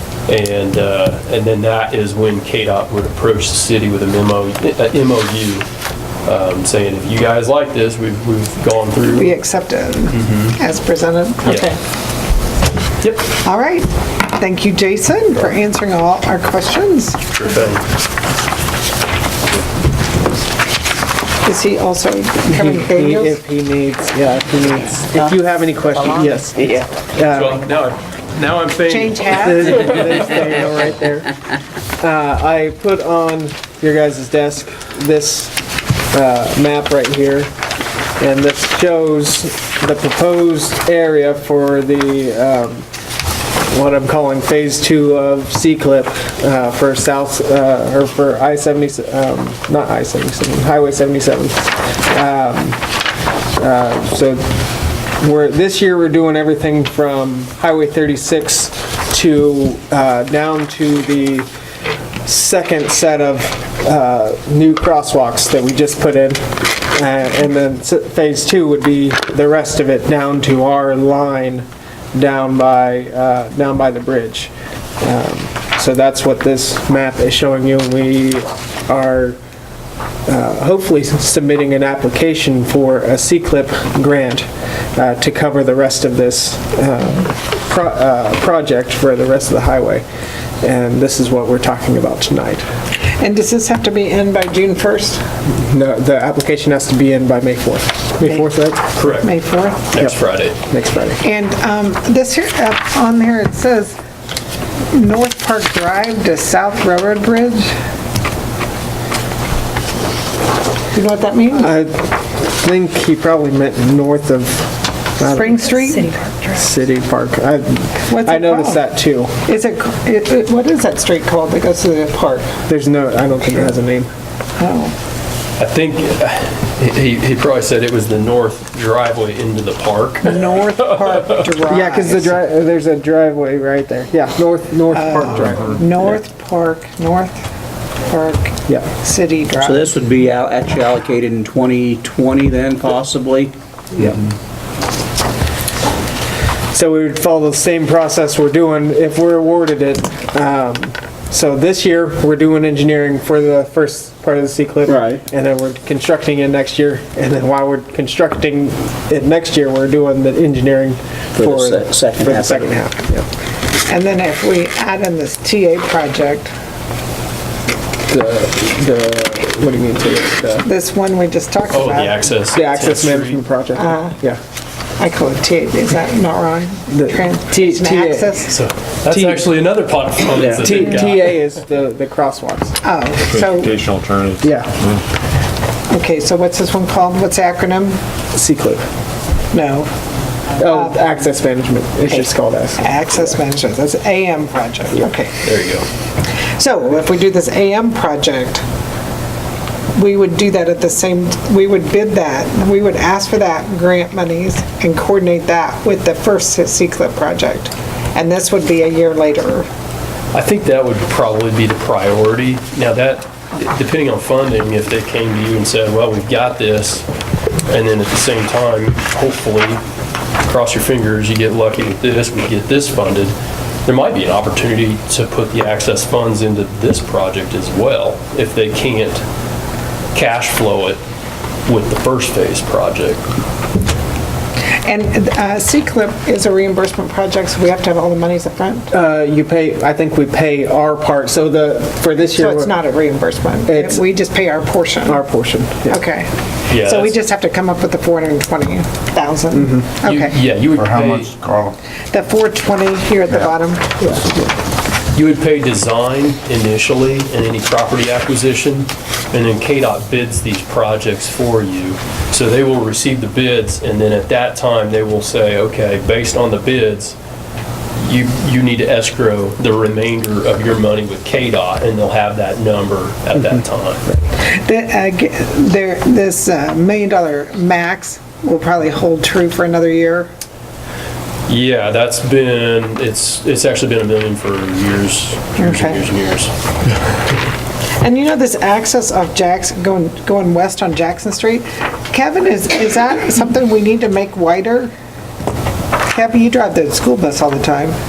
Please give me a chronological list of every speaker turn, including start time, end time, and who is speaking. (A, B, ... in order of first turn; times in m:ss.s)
0:00.3-0:05.7 A
0:06.3-0:09.4 A
0:09.1-0:11.8 B
0:10.1-0:10.6 A
0:11.4-0:11.7 A
0:13.0-0:13.3 A
0:13.4-0:17.2 B
0:17.3-0:17.9 A
0:21.4-0:23.4 B
0:22.4-0:27.7 C
0:27.3-0:30.3 A
0:28.9-0:29.7 B
0:29.3-0:31.3 C
0:32.0-0:35.6 C
0:36.1-0:37.5 C
0:38.2-0:42.9 C
0:43.7-0:52.9 C
0:53.6-0:54.6 C
0:55.1-1:01.5 C
1:02.2-1:19.4 C
1:20.3-1:30.0 C
1:30.6-1:32.7 C
1:33.2-1:35.2 B
1:35.5-1:38.9 C
1:38.9-1:40.6 A
1:39.2-1:39.9 B
1:40.7-1:41.2 C
1:41.2-1:44.0 B
1:44.9-1:47.7 B
1:50.9-1:51.7 B
1:51.5-1:55.8 C
1:55.2-1:56.4 B
1:56.5-1:59.4 C
1:58.1-1:58.8 B
1:59.5-2:02.5 B
2:02.7-2:04.1 C
2:04.6-2:04.9 B
2:05.6-2:11.4 A
2:10.2-2:12.4 B
2:11.6-2:16.1 C
2:14.9-2:17.4 B
2:18.1-2:19.8 B
2:19.6-2:24.2 D
2:26.7-2:43.3 C
2:34.9-2:35.2 D
2:41.4-2:42.7 D
2:43.9-2:46.5 B
2:48.1-2:50.7 C
2:50.6-2:52.2 B
2:51.7-2:53.4 A
2:52.5-2:54.4 C
2:53.8-2:54.2 B
2:55.0-2:58.5 B
2:56.9-2:58.4 C
2:58.5-3:01.4 A
2:59.1-2:59.4 C
3:00.4-3:02.8 C
3:02.8-3:03.7 B
3:03.3-3:05.0 E
3:04.4-3:04.8 C
3:05.9-3:08.0 B
3:08.3-3:08.9 C
3:09.5-3:09.9 B
3:10.6-3:13.2 C
3:10.7-3:11.0 B
3:12.8-3:15.4 B
3:15.4-3:15.9 A
3:16.6-3:18.6 B
3:20.0-3:29.7 B
3:30.3-3:37.1 A
3:37.7-3:39.8 A
3:40.4-3:49.2 A
3:50.1-3:51.0 A
3:51.7-3:53.2 A
3:54.9-3:58.9 B
3:58.9-4:02.8 C
4:02.2-4:05.2 B
4:03.7-4:04.0 C
4:05.0-4:06.0 C
4:05.9-4:10.4 B
4:06.7-4:07.2 A
4:09.5-4:09.9 C
4:10.0-4:11.3 A
4:10.8-4:11.8 E
4:12.1-4:13.9 B
4:14.0-4:14.5 C
4:15.1-4:27.2 A
4:28.0-4:34.1 A
4:34.5-4:40.3 B
4:41.5-4:46.5 A
4:45.6-4:46.0 B
4:48.0-4:54.9 B
4:56.1-4:58.0 B